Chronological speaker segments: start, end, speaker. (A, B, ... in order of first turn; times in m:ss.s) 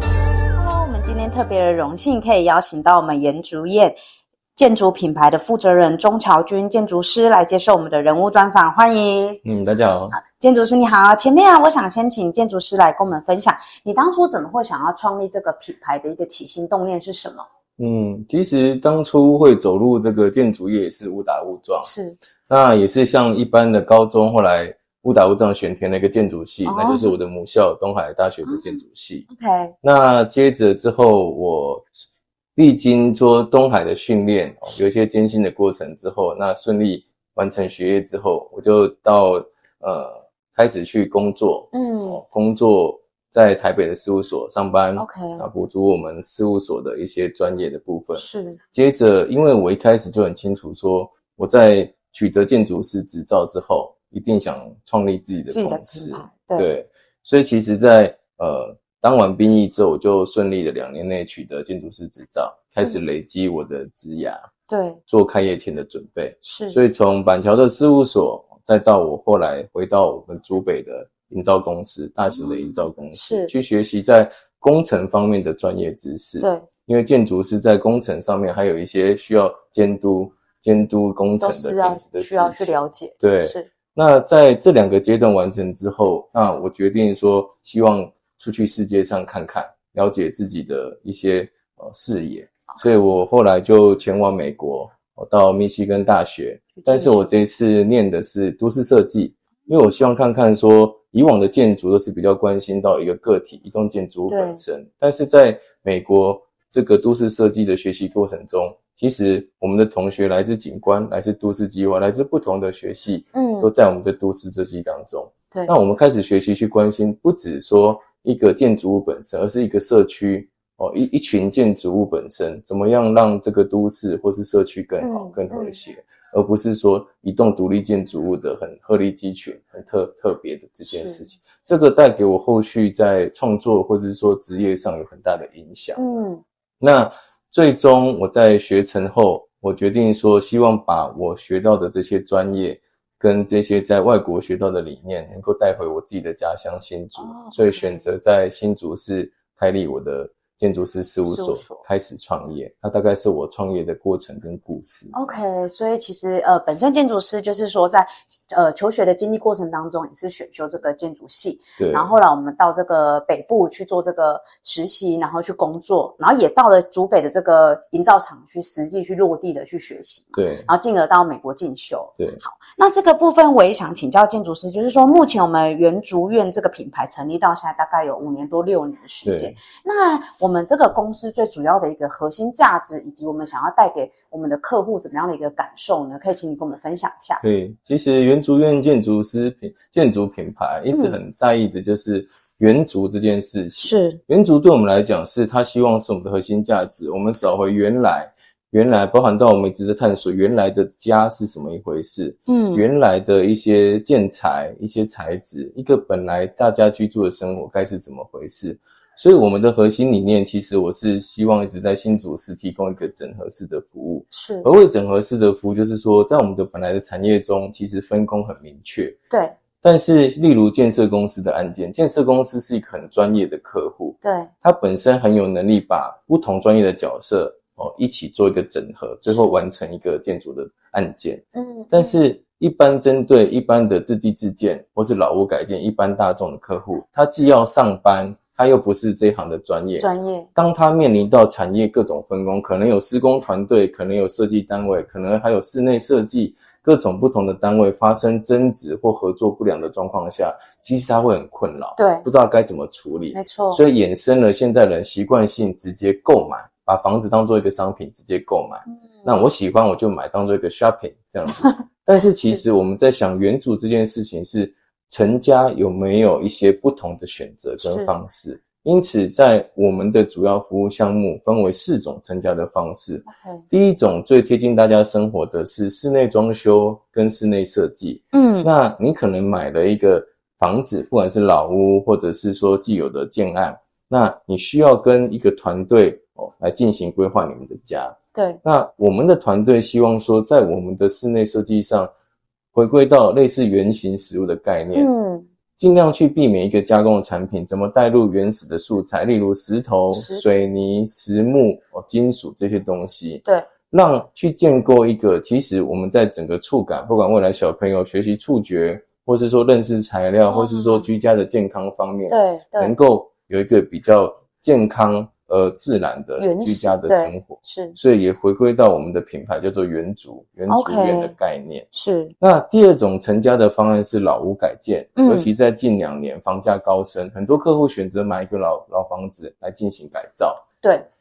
0:00.6-0:04.0 A
0:04.6-0:09.4 A
0:09.4-0:10.2 B
0:10.1-0:17.4 A
0:17.8-0:21.9 B
0:21.8-0:22.2 A
0:22.5-0:29.3 B
0:26.6-0:27.2 A
0:28.4-0:29.8 A
0:29.8-0:31.9 B
0:32.6-1:04.4 B
0:41.7-0:42.2 A
0:45.0-0:45.5 A
0:48.1-0:48.6 A
0:55.5-0:56.7 A
1:04.7-1:05.0 A
1:05.1-2:16.0 B
1:06.4-1:06.8 A
1:12.3-1:13.5 A
1:16.4-1:16.7 A
1:21.4-1:23.7 A
1:36.8-1:37.4 A
1:44.3-1:44.6 A
1:53.4-1:53.7 A
2:05.0-2:05.8 A
2:10.8-2:11.2 A
2:16.0-2:16.4 A
2:16.8-2:35.3 B
2:27.2-2:28.1 A
2:31.2-2:31.8 A
2:35.1-3:07.4 A
2:41.8-2:42.1 B
2:50.4-2:50.7 B
2:59.2-2:59.6 B
3:07.4-3:39.2 B
3:10.9-3:11.2 A
3:13.8-3:14.2 A
3:22.5-3:22.9 A
3:34.3-3:34.7 A
3:39.3-3:39.6 A
3:39.8-4:52.1 B
3:44.2-3:44.5 A
3:51.6-3:52.2 A
4:00.0-4:00.5 A
4:12.0-4:12.3 A
4:13.3-4:13.8 A
4:18.9-4:19.4 A
4:27.8-4:28.1 A
4:33.3-4:33.6 A
4:38.3-4:38.7 A
4:48.3-4:48.6 A
4:52.7-4:55.1 B
4:54.9-4:55.5 A
4:55.8-5:21.9 B
5:00.1-5:00.4 A
5:03.4-5:03.7 A
5:10.5-5:11.1 A
5:12.3-5:13.0 A
5:16.4-5:18.0 A
5:20.7-5:21.4 A
5:21.9-5:22.3 A
5:22.4-5:30.6 B
5:25.2-5:25.5 A
5:30.8-5:31.1 A